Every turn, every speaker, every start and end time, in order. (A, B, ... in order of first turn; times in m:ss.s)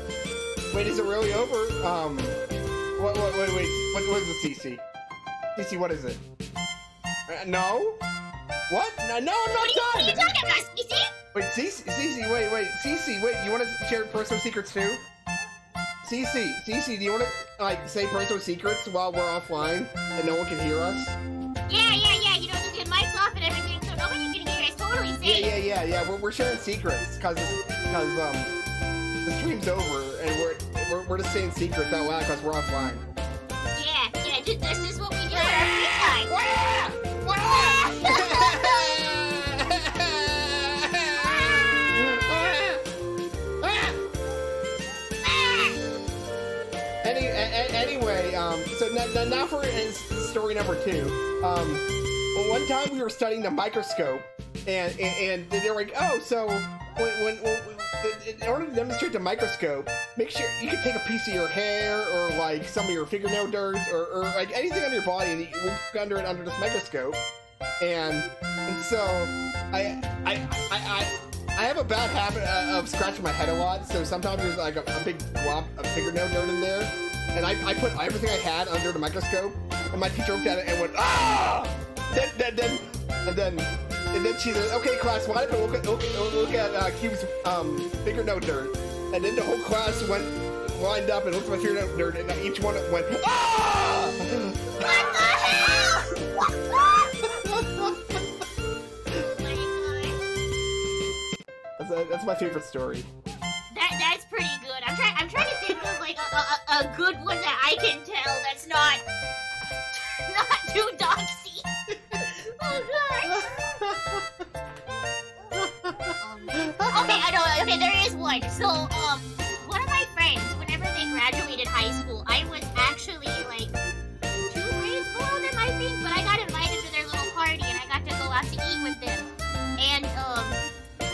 0:00.7-0:02.4 A
0:03.0-0:04.8 A
0:05.6-0:06.2 A
0:07.3-0:08.0 A
0:08.7-0:10.5 A
0:09.5-0:11.1 B
0:11.3-0:15.0 A
0:16.0-0:21.2 A
0:21.7-0:25.5 B
0:25.2-0:28.5 A
0:29.2-0:33.0 A
0:33.7-0:36.3 B
0:35.3-0:42.8 A
0:37.2-0:38.8 B
0:41.2-0:42.2 B
0:43.6-0:44.0 A
0:45.2-0:45.8 B
0:47.0-1:07.2 A
1:07.8-1:36.0 A
1:34.8-1:37.1 B
1:37.2-1:38.2 A
1:39.1-1:40.2 B
1:41.8-1:43.1 A
1:43.7-1:49.0 B
1:50.1-1:51.7 B
1:51.9-1:54.4 A
1:52.6-1:53.4 B
1:55.5-1:57.2 A
1:56.2-2:03.7 B
2:04.4-2:10.6 B